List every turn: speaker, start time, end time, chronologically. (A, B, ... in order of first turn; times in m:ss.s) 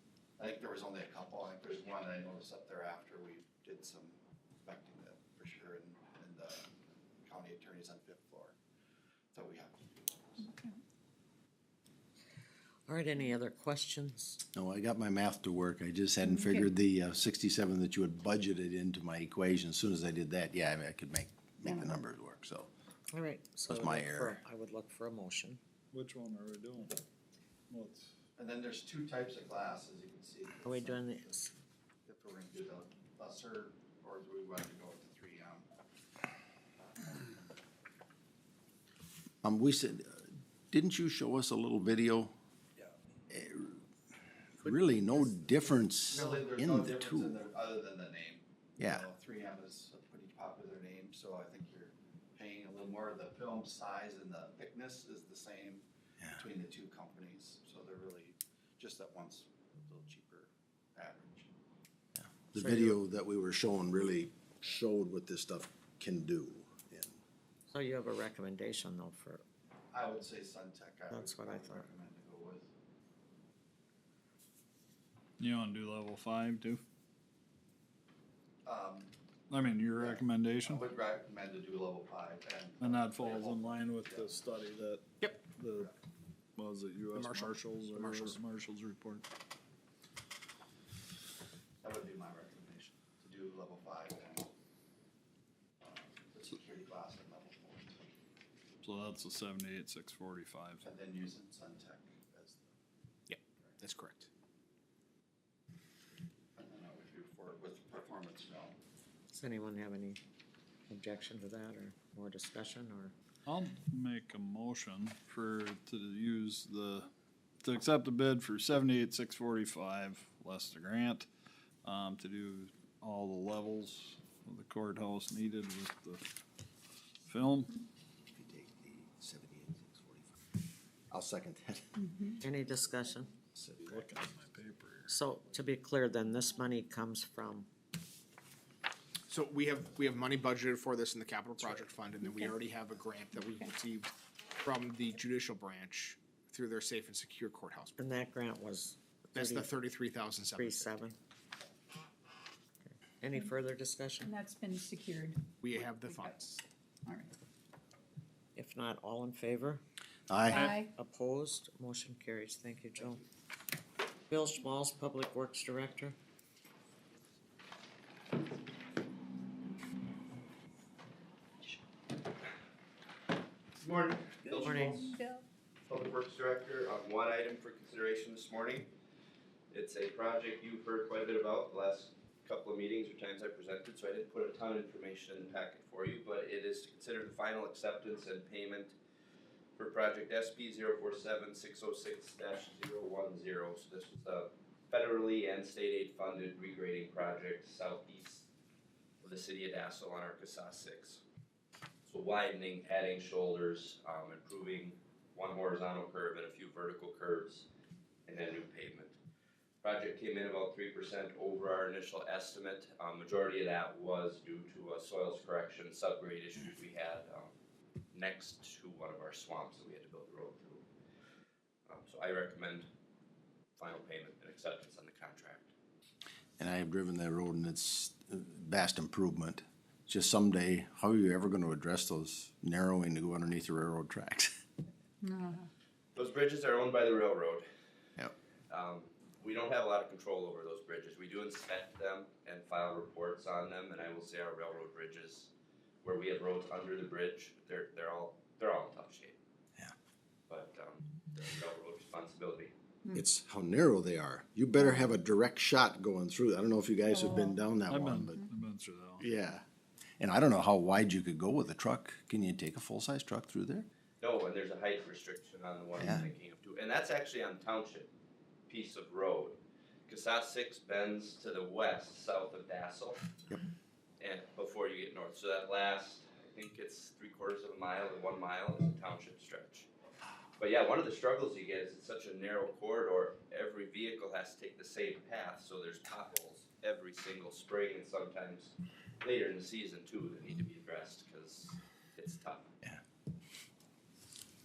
0:00.4-0:06.7 A
0:07.2-0:08.6 A
0:09.3-0:10.5 A
0:12.9-0:14.4 B
0:14.5-0:22.7 C
0:16.3-0:16.6 D
0:21.7-0:22.0 D
0:23.1-0:25.6 B
0:23.7-0:24.4 C
0:25.9-0:27.0 E
0:27.7-0:28.1 E
0:28.4-0:31.4 A
0:30.6-0:31.5 B
0:32.1-0:35.7 A
0:39.4-0:42.4 C
0:43.3-0:43.8 C
0:44.6-0:47.4 C
0:44.6-0:45.3 B
0:46.1-1:01.5 A
0:46.1-0:46.4 B
0:48.8-0:49.1 C
1:02.2-1:07.2 C
1:02.6-1:03.0 B
1:07.7-1:09.4 B
1:09.9-1:12.7 A
1:11.1-1:11.9 B
1:15.4-1:16.8 E
1:18.6-1:19.1 A
1:19.5-1:20.8 E
1:20.0-1:24.3 A
1:22.8-1:25.9 E
1:25.2-1:25.5 F
1:26.6-1:29.3 E
1:27.1-1:28.4 F
1:31.8-1:34.5 A
1:35.8-1:38.0 A
1:38.8-1:40.8 E
1:40.8-1:42.7 A
1:43.3-1:44.3 F
1:46.6-1:48.8 A
1:49.3-1:50.2 B
1:50.9-1:53.1 B
1:53.5-1:57.1 E
1:57.6-2:01.3 E
2:01.8-2:06.3 E
2:07.3-2:07.8 E
2:08.3-2:10.4 C
2:11.1-2:11.9 C
2:12.0-2:12.4 D
2:12.4-2:13.4 B
2:13.6-2:14.4 C
2:13.7-2:15.1 E
2:15.1-2:17.7 B
2:19.3-2:28.0 F
2:28.0-2:29.7 B
2:29.4-2:30.9 F
2:30.5-2:31.2 B
2:32.8-2:34.4 B
2:34.2-2:36.4 D
2:35.6-2:36.6 F
2:37.0-2:37.3 D
2:38.6-2:39.8 B
2:40.3-2:40.7 C
2:40.5-2:40.9 D
2:40.6-2:43.2 B
2:44.3-2:46.2 B
2:53.8-2:55.1 G
2:54.6-2:55.2 B
2:54.6-2:55.4 D
2:55.9-2:58.9 G
2:59.7-3:09.0 G
3:09.8-3:18.5 G
3:19.2-3:21.2 G
3:22.0-3:27.7 G
3:28.3-3:29.2 G
3:29.8-3:37.5 G
3:38.1-3:40.8 G
3:41.9-3:42.9 G
3:43.8-3:45.7 G
3:46.6-3:54.5 C
3:55.2-3:55.7 D
3:56.2-3:57.6 G
3:58.7-4:05.5 G
4:06.0-4:09.4 G
4:10.5-4:12.7 G
4:13.1-4:18.4 C
4:17.1-4:17.6 D
4:17.9-4:19.3 E
4:19.2-4:19.6 C
4:20.2-4:23.9 C
4:24.2-4:28.1 G
4:26.0-4:26.3 C
4:28.7-4:33.2 G
4:34.2-4:39.9 G
4:40.6-4:52.7 G